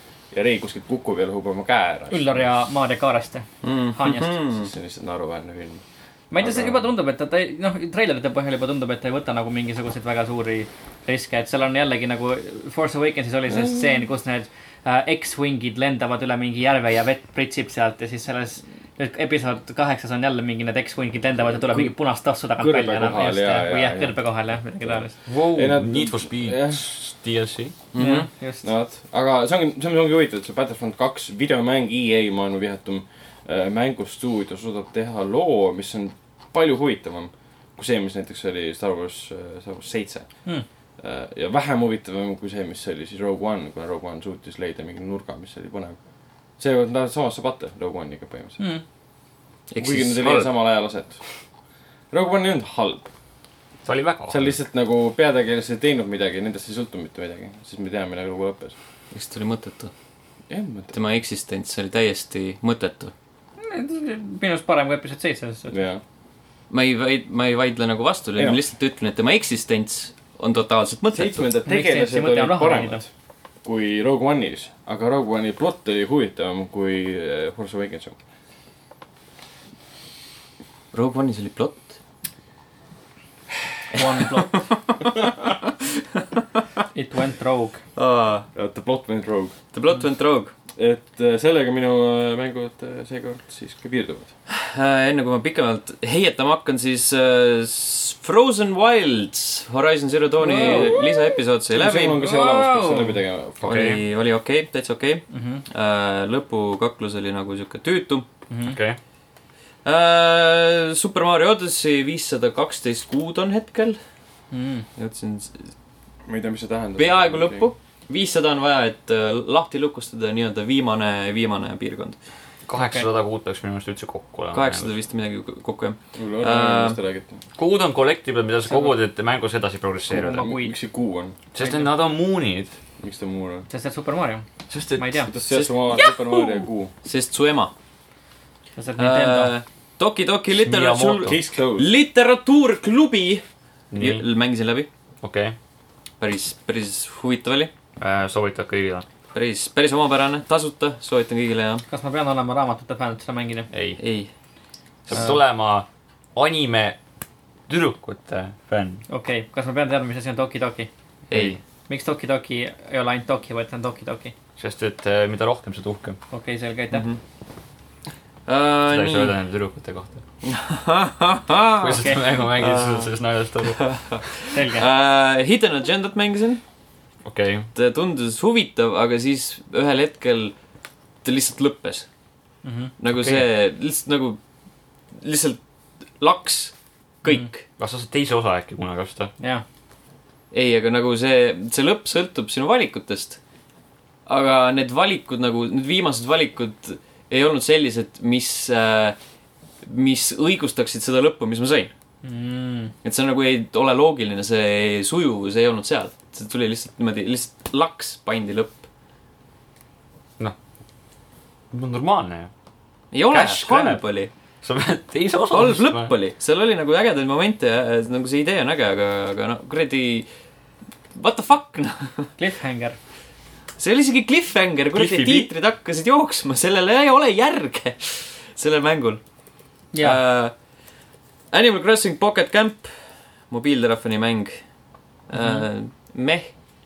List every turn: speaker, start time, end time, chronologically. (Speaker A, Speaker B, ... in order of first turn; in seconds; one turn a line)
Speaker A: 0.3-2.4
Speaker B: 2.1-4.3
Speaker C: 3.6-4.7
Speaker A: 4.5-5.8
Speaker B: 6.3-25.1
Speaker A: 6.4-6.8
Speaker A: 13.5-13.8
Speaker A: 21.7-21.9
Speaker A: 22.6-24.2
Speaker A: 24.8-26.8
Speaker D: 25.3-27.7
Speaker C: 27.9-28.3
Speaker B: 28.0-28.7
Speaker A: 28.6-40.3
Speaker A: 41.0-46.0
Speaker A: 46.6-48.6
Speaker C: 49.7-50.5
Speaker A: 49.8-51.2
Speaker A: 52.1-53.1
Speaker D: 53.8-54.5
Speaker A: 54.3-58.7
Speaker C: 59.1-59.9
Speaker A: 60.5-60.9
Speaker C: 60.9-63.1
Speaker B: 63.6-65.7
Speaker A: 65.7-66.0
Speaker C: 66.7-71.5
Speaker A: 71.1-73.1
Speaker B: 71.7-73.0
Speaker A: 73.6-78.2
Speaker C: 80.9-82.0
Speaker B: 83.9-84.6
Speaker C: 84.3-85.1
Speaker B: 86.9-87.8
Speaker C: 88.0-88.5
Speaker A: 88.5-89.5
Speaker C: 89.7-90.5
Speaker A: 90.8-94.3
Speaker C: 94.5-102.2
Speaker B: 100.4-101.1
Speaker A: 100.4-101.1
Speaker A: 101.7-103.7
Speaker B: 102.2-103.2
Speaker D: 103.6-104.0
Speaker C: 103.6-108.2
Speaker B: 105.3-105.6
Speaker B: 108.5-108.8
Speaker D: 108.7-109.0
Speaker C: 109.8-114.0
Speaker B: 114.5-114.8
Speaker C: 115.0-115.7
Speaker A: 116.3-117.7
Speaker C: 117.0-122.2
Speaker D: 122.7-124.9
Speaker B: 122.7-123.1
Speaker C: 124.5-127.0
Speaker A: 126.2-127.4
Speaker D: 127.6-130.4
Speaker B: 128.7-129.0
Speaker B: 130.1-130.7
Speaker A: 130.3-131.3
Speaker D: 131.5-132.7
Speaker B: 131.6-131.9
Speaker A: 133.0-133.7
Speaker B: 133.7-134.4
Speaker D: 134.7-135.3
Speaker B: 135.0-135.3
Speaker A: 135.3-136.9
Speaker C: 135.5-136.5
Speaker C: 137.0-137.7
Speaker B: 138.8-139.5
Speaker C: 139.0-144.9
Speaker D: 140.5-141.4
Speaker A: 141.2-141.9
Speaker D: 143.9-144.2
Speaker D: 145.2-145.5
Speaker C: 146.2-147.7
Speaker D: 148.0-149.0
Speaker C: 149.3-151.8
Speaker B: 151.9-153.7
Speaker D: 153.7-154.0
Speaker C: 154.0-154.3
Speaker D: 155.1-157.0
Speaker D: 157.7-159.0
Speaker B: 159.1-160.9
Speaker C: 161.3-161.6
Speaker D: 161.3-161.6
Speaker B: 161.9-164.3
Speaker D: 164.6-166.2
Speaker B: 166.3-167.0
Speaker C: 166.9-167.2
Speaker C: 168.5-169.3
Speaker D: 168.9-170.2
Speaker C: 170.4-172.0
Speaker D: 171.8-173.9
Speaker B: 171.9-173.1
Speaker C: 173.6-176.6
Speaker B: 174.5-174.8
Speaker D: 177.2-177.7
Speaker C: 177.7-180.5
Speaker C: 181.2-182.1
Speaker B: 182.6-182.9
Speaker C: 183.0-184.4
Speaker C: 185.2-185.6
Speaker C: 186.2-187.6
Speaker D: 187.8-189.3
Speaker C: 190.5-193.4
Speaker C: 194.2-199.2
Speaker C: 199.8-201.9
Speaker B: 202.2-202.9
Speaker C: 203.0-208.8
Speaker D: 211.7-212.5
Speaker C: 213.1-214.3
Speaker D: 213.3-214.0
Speaker D: 214.6-216.1
Speaker C: 215.5-220.3
Speaker C: 221.1-222.3
Speaker B: 222.4-223.0
Speaker C: 223.8-229.2
Speaker D: 224.9-225.5
Speaker B: 229.9-230.2
Speaker C: 230.0-230.5
Speaker C: 231.5-232.9
Speaker C: 233.5-234.6
Speaker C: 235.3-236.5